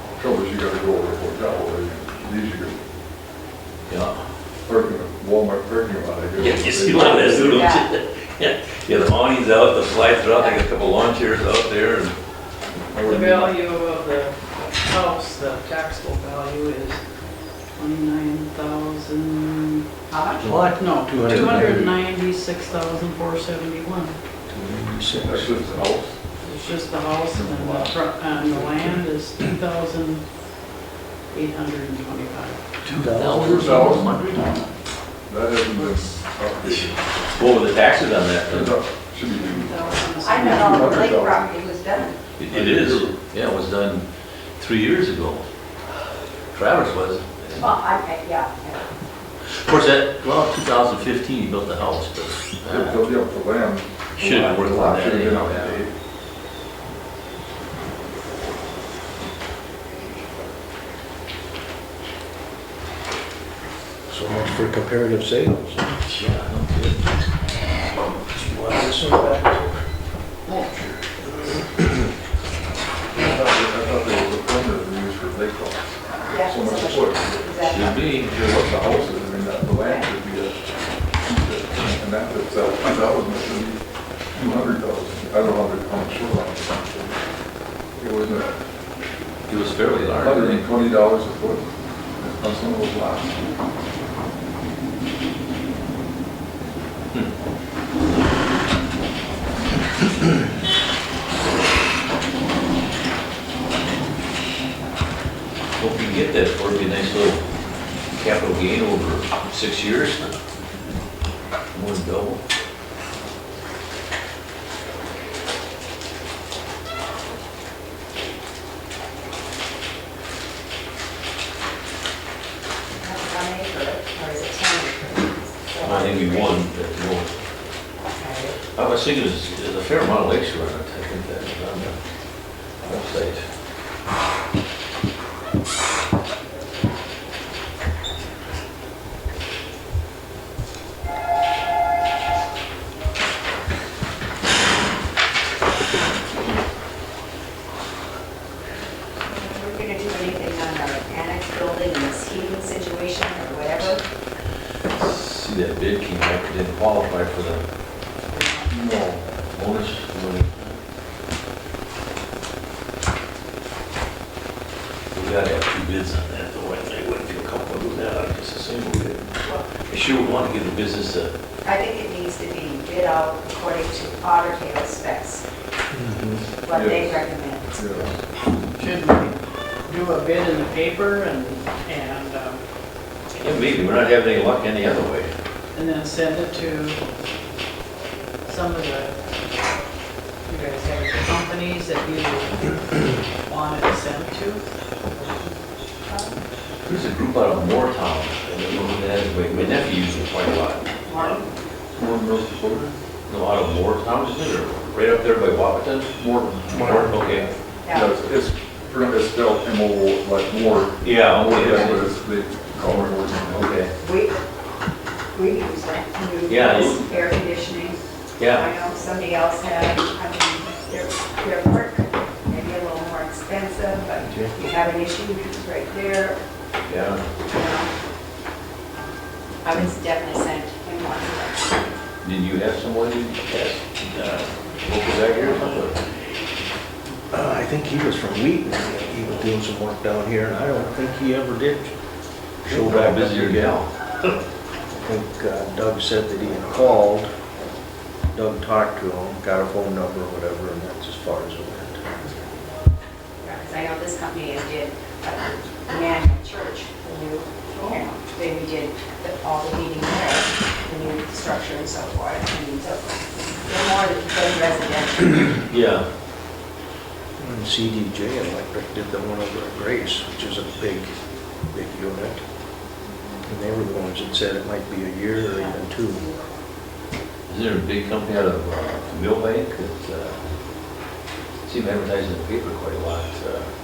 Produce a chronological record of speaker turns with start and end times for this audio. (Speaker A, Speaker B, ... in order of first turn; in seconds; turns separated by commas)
Speaker A: 0.2-2.8, Speaker B: 3.9-4.2, Speaker A: 4.6-7.4, Speaker B: 6.4-12.2, Speaker C: 6.9-7.9, Speaker A: 12.9-13.5, Speaker D: 13.0-17.0, Speaker D: 17.8-19.9, Speaker C: 20.1-20.5, Speaker E: 20.4-22.0, Speaker D: 20.4-24.1, Speaker B: 20.5-20.7, Speaker E: 24.5-25.8, Speaker A: 25.1-26.2, Speaker D: 26.4-30.2, Speaker A: 27.3-28.9, Speaker D: 31.3-32.6, Speaker B: 32.8-34.6, Speaker E: 32.9-34.0, Speaker A: 33.4-34.2, Speaker A: 35.3-37.0, Speaker D: 35.7-36.1, Speaker B: 37.3-38.8, Speaker A: 38.4-41.5, Speaker D: 39.3-41.1, Speaker C: 39.8-42.2, Speaker B: 42.4-44.1, Speaker A: 42.5-43.1, Speaker B: 44.6-45.5, Speaker B: 46.5-47.7, Speaker C: 47.6-48.9, Speaker B: 49.5-53.0, Speaker A: 52.6-55.9, Speaker B: 54.2-55.8, Speaker E: 64.1-66.2, Speaker B: 66.1-67.1, Speaker E: 68.3-69.8, Speaker B: 68.4-69.0, Speaker A: 73.1-77.5, Speaker C: 76.3-78.1, Speaker B: 77.7-78.6, Speaker A: 78.2-80.6, Speaker C: 79.7-80.1, Speaker A: 81.2-83.8, Speaker A: 84.3-87.2, Speaker A: 88.0-88.5, Speaker B: 89.5-90.6, Speaker A: 90.2-91.7, Speaker A: 92.2-93.5, Speaker B: 105.8-107.5, Speaker B: 108.1-110.4, Speaker B: 111.7-112.4, Speaker C: 123.0-126.6, Speaker B: 125.8-127.3, Speaker C: 128.0-128.6, Speaker B: 128.8-132.0, Speaker B: 132.8-133.4, Speaker C: 149.3-154.0, Speaker B: 154.9-157.6, Speaker C: 158.3-158.7, Speaker A: 158.7-159.2, Speaker B: 159.5-160.8, Speaker B: 165.1-171.3, Speaker C: 171.6-175.4, Speaker E: 175.9-176.4, Speaker C: 176.6-178.1, Speaker A: 176.7-178.2, Speaker D: 178.8-182.6, Speaker B: 183.4-185.3, Speaker D: 185.8-187.0, Speaker D: 188.4-189.2, Speaker D: 190.5-194.6, Speaker C: 195.1-196.3, Speaker B: 196.9-201.4, Speaker C: 201.1-201.5, Speaker A: 201.9-202.9, Speaker B: 203.3-206.1, Speaker A: 206.2-213.8, Speaker B: 206.7-207.5, Speaker E: 206.8-207.2, Speaker C: 207.2-208.1, Speaker B: 211.0-212.1, Speaker B: 212.9-213.9, Speaker C: 214.0-214.3, Speaker C: 215.3-218.0, Speaker B: 216.5-217.0, Speaker B: 218.4-218.7, Speaker C: 218.5-226.4, Speaker B: 226.8-227.2, Speaker C: 227.5-227.9, Speaker C: 229.6-231.9, Speaker B: 232.2-236.2, Speaker E: 237.3-241.9, Speaker E: 242.6-243.8, Speaker B: 242.7-244.3, Speaker E: 244.9-247.3, Speaker E: 248.3-252.1, Speaker C: 252.2-252.7, Speaker C: 253.4-265.6, Speaker B: 265.7-266.1, Speaker E: 267.4-271.1, Speaker E: 271.7-272.4, Speaker E: 273.4-276.3, Speaker B: 277.5-280.4, Speaker B: 281.6-283.7